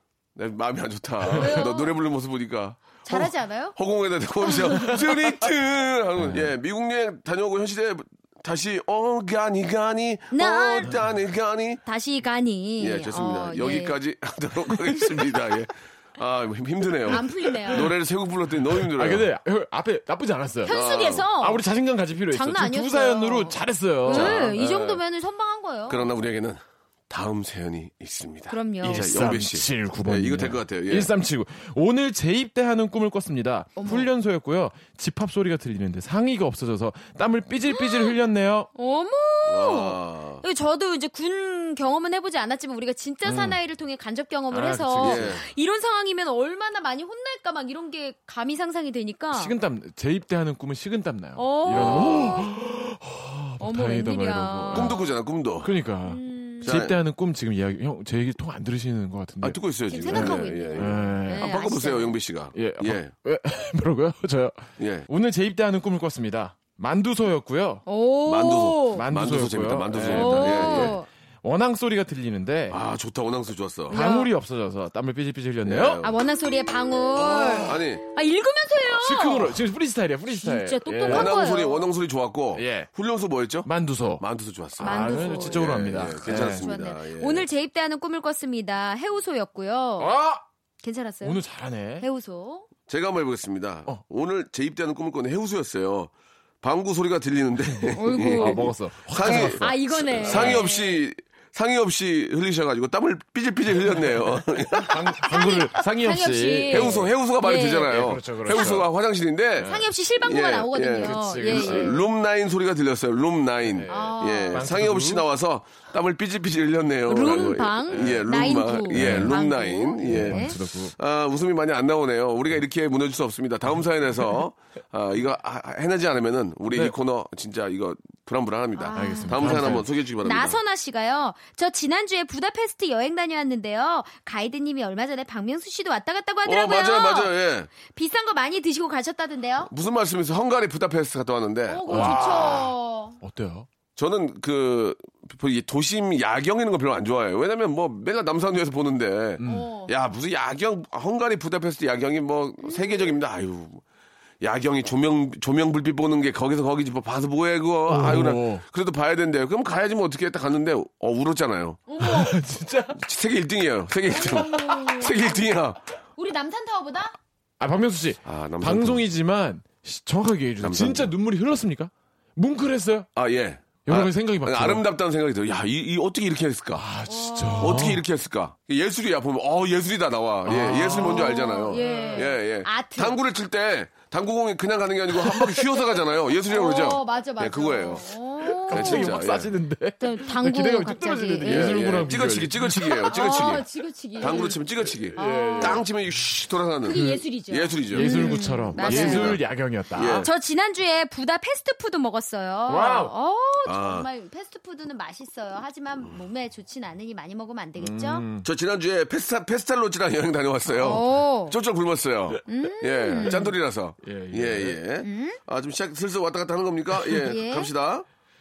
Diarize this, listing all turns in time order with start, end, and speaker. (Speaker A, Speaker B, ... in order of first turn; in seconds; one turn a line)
Speaker A: 0.3-11.8
Speaker B: 1.3-1.9
Speaker B: 3.1-3.8
Speaker B: 4.4-5.0
Speaker C: 6.2-6.5
Speaker B: 10.3-10.9
Speaker B: 11.8-14.0
Speaker A: 12.8-19.3
Speaker B: 17.1-17.9
Speaker C: 18.8-20.8
Speaker B: 20.7-21.6
Speaker A: 20.7-21.3
Speaker C: 21.4-25.0
Speaker B: 22.3-26.1
Speaker A: 24.1-24.6
Speaker A: 25.9-31.1
Speaker B: 28.5-29.1
Speaker C: 28.8-38.7
Speaker B: 33.8-34.1
Speaker B: 37.7-38.1
Speaker B: 38.8-49.5
Speaker A: 39.5-40.4
Speaker C: 43.2-43.6
Speaker C: 44.5-45.4
Speaker A: 45.0-45.5
Speaker C: 49.3-55.0
Speaker B: 51.4-52.5
Speaker A: 51.7-52.4
Speaker B: 53.6-55.0
Speaker A: 54.7-55.7
Speaker C: 55.6-61.5
Speaker B: 56.1-56.8
Speaker A: 56.6-57.0
Speaker A: 59.4-63.1
Speaker B: 59.9-62.2
Speaker C: 62.5-67.8
Speaker A: 64.8-65.1
Speaker B: 67.9-69.0
Speaker A: 68.3-71.0
Speaker C: 68.9-72.8
Speaker B: 70.1-71.1
Speaker A: 72.7-74.0
Speaker B: 73.9-74.3
Speaker C: 73.9-76.0
Speaker A: 75.7-76.2
Speaker B: 76.0-79.5
Speaker A: 77.2-78.0
Speaker C: 79.0-81.3
Speaker B: 80.4-81.8
Speaker A: 81.1-87.5
Speaker C: 82.5-82.9
Speaker C: 83.7-84.2
Speaker C: 84.8-86.7
Speaker B: 84.8-90.1
Speaker C: 90.0-90.4
Speaker B: 90.8-91.4
Speaker C: 91.2-92.1
Speaker B: 92.0-92.7
Speaker A: 92.9-96.1
Speaker A: 96.6-105.2
Speaker C: 97.7-100.7
Speaker B: 98.0-98.7
Speaker B: 99.2-101.0
Speaker C: 104.8-107.1
Speaker B: 105.2-107.9
Speaker A: 106.7-130.6
Speaker C: 107.6-108.9
Speaker C: 109.6-109.9
Speaker B: 109.6-112.0
Speaker C: 111.0-112.0
Speaker C: 113.7-115.2
Speaker B: 113.9-114.6
Speaker B: 117.1-120.6
Speaker C: 117.9-118.3
Speaker C: 118.9-119.4
Speaker C: 120.0-121.0
Speaker B: 128.8-139.7
Speaker C: 128.9-129.9
Speaker A: 136.4-137.7
Speaker A: 139.6-142.6
Speaker B: 141.7-143.2
Speaker C: 141.9-143.7
Speaker A: 144.0-153.8
Speaker C: 149.4-149.7
Speaker B: 149.4-149.9
Speaker B: 152.6-153.2
Speaker A: 154.4-161.8
Speaker C: 157.9-158.6
Speaker B: 161.9-162.3
Speaker C: 162.0-163.0
Speaker A: 162.9-165.8
Speaker B: 164.1-165.4
Speaker C: 164.2-165.1
Speaker B: 166.2-167.2
Speaker C: 167.6-173.1
Speaker A: 168.2-169.1
Speaker A: 170.6-171.1
Speaker A: 173.2-176.9
Speaker C: 173.8-174.8
Speaker C: 176.8-178.0
Speaker B: 177.1-177.8
Speaker A: 177.6-188.1
Speaker C: 180.5-182.3
Speaker B: 180.9-183.2
Speaker C: 185.2-185.7
Speaker B: 186.5-189.2
Speaker C: 188.7-193.6
Speaker A: 188.7-189.5
Speaker B: 190.0-192.0
Speaker A: 191.4-193.7
Speaker B: 192.8-194.6
Speaker A: 194.2-200.3
Speaker C: 195.1-195.8
Speaker B: 195.2-195.8
Speaker B: 196.8-199.4
Speaker C: 196.9-197.2
Speaker C: 197.9-200.3
Speaker B: 200.2-208.2
Speaker C: 202.7-203.1
Speaker A: 203.7-204.1
Speaker C: 207.8-208.5
Speaker A: 208.4-218.1
Speaker B: 210.8-211.6
Speaker B: 212.5-213.4
Speaker C: 214.0-214.8
Speaker B: 215.0-215.4
Speaker B: 217.2-217.7